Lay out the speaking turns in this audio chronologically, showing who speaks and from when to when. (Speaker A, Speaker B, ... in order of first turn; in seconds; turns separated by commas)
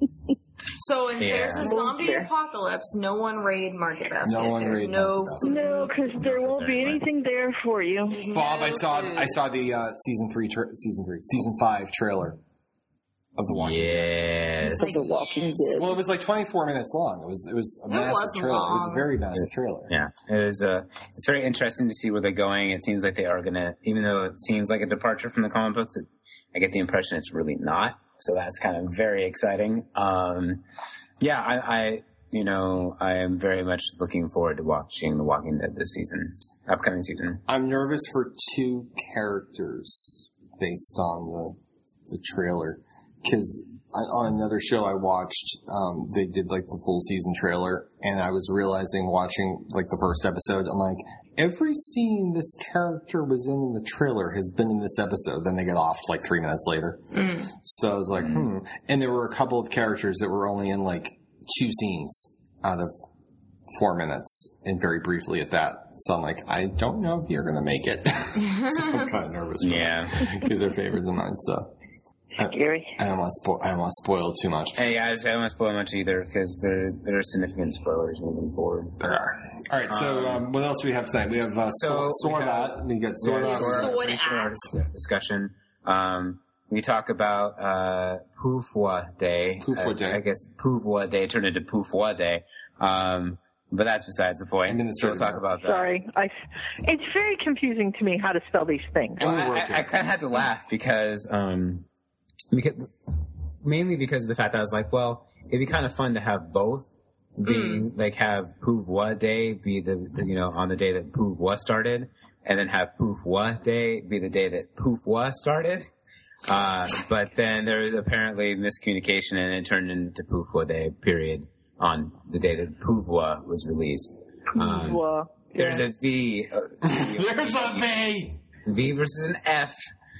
Speaker A: 0.7-5.9, Speaker B: 1.2-1.7, Speaker C: 1.6-2.3, Speaker D: 4.2-5.6, Speaker C: 5.4-8.2, Speaker B: 6.1-7.0, Speaker A: 8.1-9.3, Speaker D: 8.3-12.4, Speaker D: 13.3-14.3, Speaker B: 13.5-15.0, Speaker A: 14.6-15.5, Speaker C: 14.7-15.9, Speaker D: 15.7-19.9, Speaker A: 17.9-19.1, Speaker B: 19.9-30.6, Speaker B: 31.2-37.4, Speaker D: 37.5-41.6, Speaker D: 42.1-62.9, Speaker A: 57.1-57.5, Speaker D: 63.7-71.7, Speaker A: 68.4-69.0, Speaker B: 69.6-70.3, Speaker D: 72.3-74.8, Speaker C: 72.5-73.0, Speaker B: 74.8-79.0, Speaker D: 79.0-84.0, Speaker B: 79.9-80.4, Speaker B: 81.7-95.9, Speaker A: 83.4-84.7, Speaker D: 89.6-90.2, Speaker D: 94.6-95.4, Speaker C: 95.6-99.2, Speaker D: 99.2-99.9, Speaker B: 99.2-101.9, Speaker B: 102.5-115.9, Speaker A: 107.4-107.9, Speaker B: 116.5-128.0, Speaker C: 124.5-125.8, Speaker D: 126.8-128.4, Speaker B: 128.6-129.9